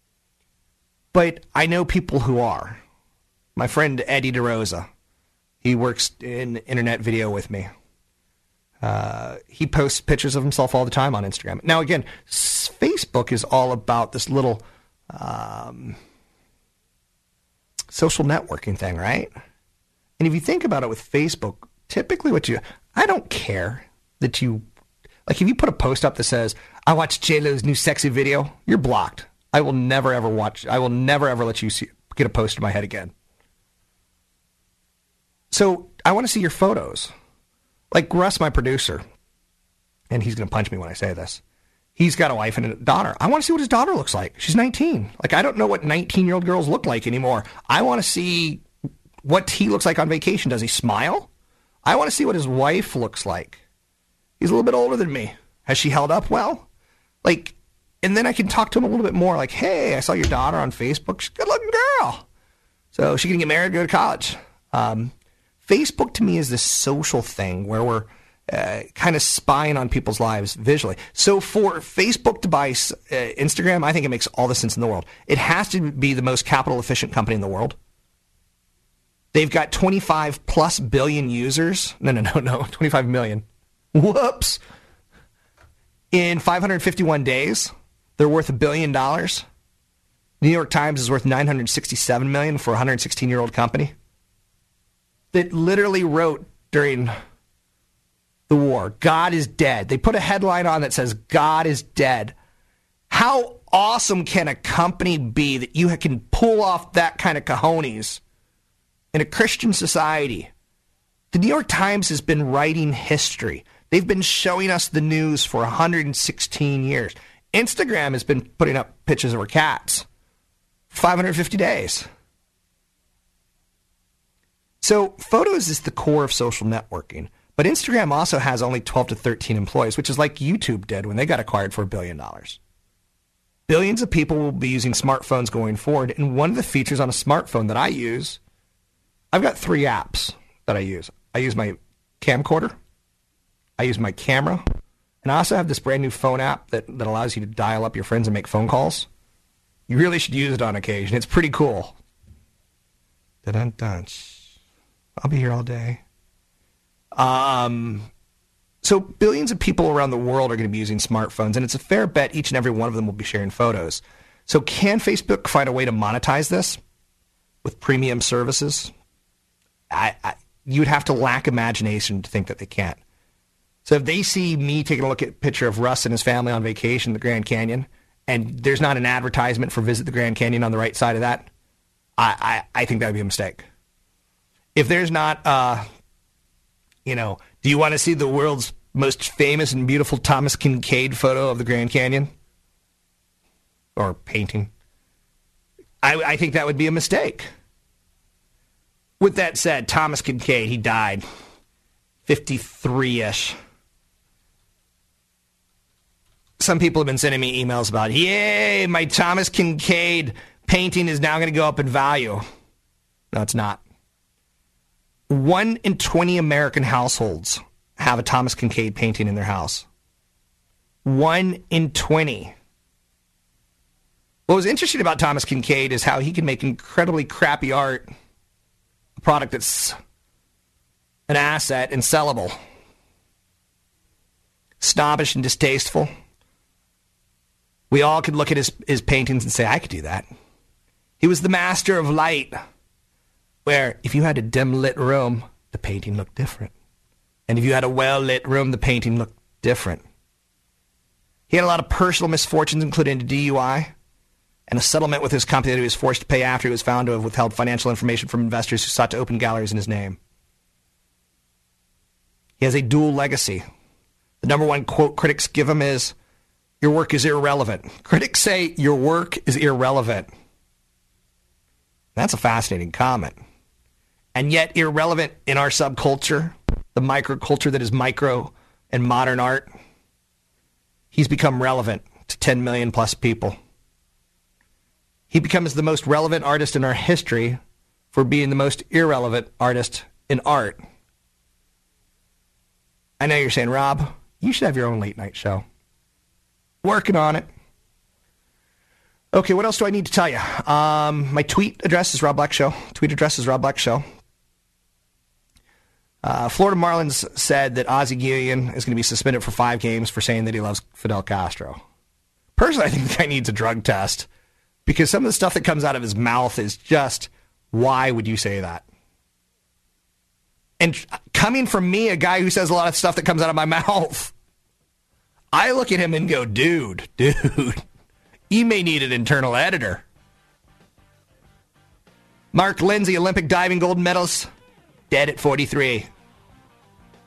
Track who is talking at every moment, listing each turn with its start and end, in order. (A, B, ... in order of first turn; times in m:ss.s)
0:01.1-0:02.8 A
0:03.6-0:04.9 A
0:05.6-0:07.7 A
0:08.8-0:16.0 A
0:17.9-0:19.3 A
0:20.2-0:24.6 A
0:25.2-0:33.1 A
0:35.5-0:37.1 A
0:37.9-0:39.0 A
0:40.1-0:41.4 A
0:42.0-0:48.6 A
0:49.2-0:51.3 A
0:51.8-0:53.6 A
0:54.4-0:56.6 A
0:57.2-1:02.2 A
1:02.9-1:17.8 A
1:19.3-1:24.6 A
1:26.1-1:29.4 A
1:30.4-1:33.9 A
1:35.3-1:37.1 A
1:38.5-1:42.4 A
1:43.1-1:48.2 A
1:49.1-1:50.5 A
1:51.3-2:00.1 A
2:00.9-2:02.1 A
2:04.8-2:12.6 A
2:13.7-2:18.4 A
2:19.3-2:22.8 A
2:23.8-2:24.6 A
2:25.2-2:29.1 A
2:29.9-2:32.0 A
2:33.4-2:34.5 A
2:35.2-2:36.0 A
2:37.1-2:38.1 A
2:38.8-2:46.8 A
2:47.6-2:48.9 A
2:49.9-2:53.0 A
2:53.8-3:01.5 A
3:02.2-3:03.7 A
3:04.7-3:05.9 A
3:07.0-3:12.3 A
3:14.0-3:14.7 A
3:16.0-3:17.5 A
3:19.2-3:21.2 A
3:22.2-3:23.6 A
3:26.6-3:32.4 A
3:33.3-3:33.8 A
3:35.3-3:39.9 A
3:41.0-3:42.6 A
3:44.5-3:48.1 A
3:49.2-3:50.0 A
3:51.3-3:52.6 A
3:54.8-3:56.1 A
3:57.9-4:00.2 A
4:01.2-4:02.6 A
4:03.6-4:06.7 A
4:07.5-4:10.0 A
4:11.5-4:13.9 A
4:14.7-4:20.2 A
4:22.6-4:23.6 A
4:24.4-4:26.1 A
4:26.8-4:30.3 A
4:32.2-4:33.4 A
4:34.4-4:39.7 A
4:41.1-4:43.6 A
4:45.3-4:47.6 A
4:48.1-4:50.8 A
4:53.2-4:55.6 A
4:56.8-4:57.5 A
4:59.3-5:04.0 A
5:06.2-5:11.8 A
5:12.6-5:14.3 A
5:14.9-5:18.9 A
5:20.8-5:24.3 A
5:25.5-5:27.8 A
5:28.5-5:30.0 A
5:32.5-5:34.5 A
5:35.1-5:36.1 A